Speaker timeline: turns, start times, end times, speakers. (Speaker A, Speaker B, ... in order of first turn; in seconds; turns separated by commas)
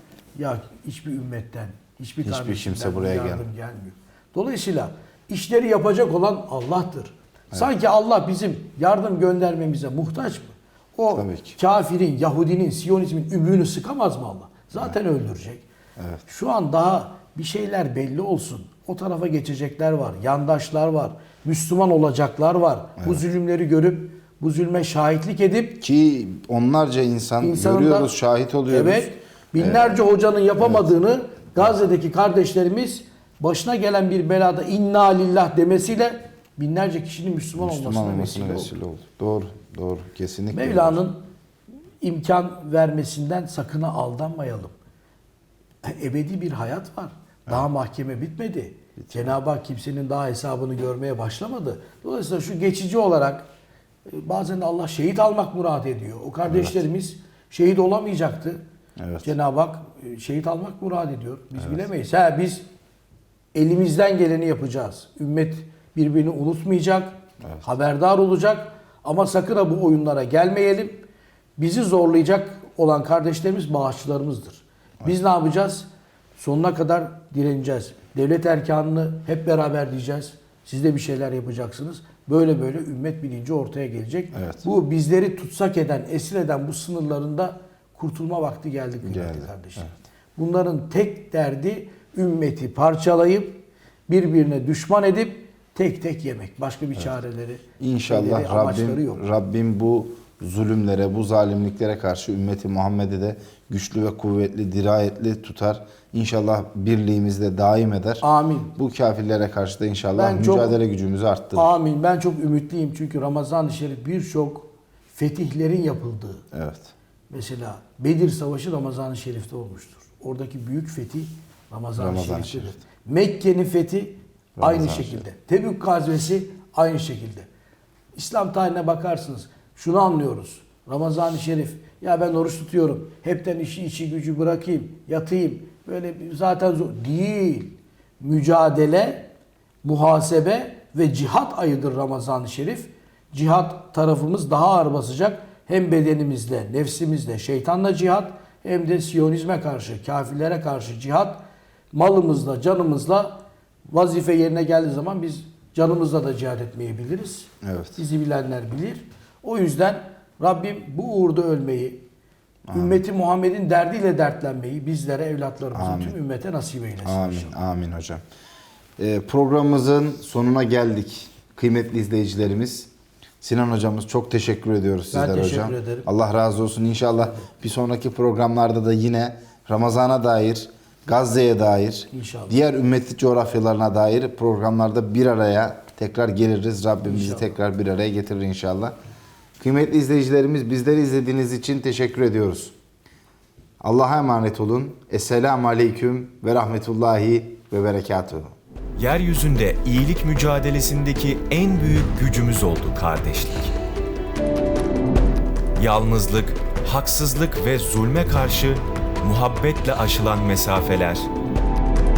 Speaker A: 0.3-15.7, Speaker B: 2.2-3.4, Speaker B: 11.1-11.6, Speaker B: 16.0-16.2, Speaker A: 16.2-25.8, Speaker B: 25.8-30.0, Speaker A: 27.4-28.1, Speaker A: 28.7-38.7, Speaker B: 37.6-41.0, Speaker A: 40.5-41.3, Speaker A: 42.0-44.7, Speaker A: 45.8-53.5, Speaker B: 49.0-49.3, Speaker A: 54.1-58.6, Speaker B: 56.5-56.8, Speaker B: 59.0-59.3, Speaker A: 59.2-62.6, Speaker A: 63.5-99.2, Speaker B: 84.3-84.6, Speaker B: 89.0-89.9, Speaker B: 97.8-111.7, Speaker A: 108.2-108.7, Speaker A: 110.2-110.8, Speaker A: 111.5-116.5, Speaker B: 116.5-116.9, Speaker A: 117.3-127.5, Speaker B: 122.0-122.8, Speaker B: 124.6-125.2, Speaker A: 128.1-139.3, Speaker A: 139.8-151.4, Speaker A: 151.9-162.0, Speaker B: 157.6-158.0, Speaker B: 162.7-163.0, Speaker A: 162.7-167.6, Speaker B: 165.7-166.2, Speaker B: 167.0-168.2, Speaker B: 169.0-172.9, Speaker B: 173.4-188.9, Speaker A: 175.1-176.1, Speaker A: 182.1-182.6, Speaker A: 187.0-187.6, Speaker B: 189.6-192.7, Speaker B: 193.8-198.5, Speaker C: 198.9-203.7, Speaker C: 205.8-211.3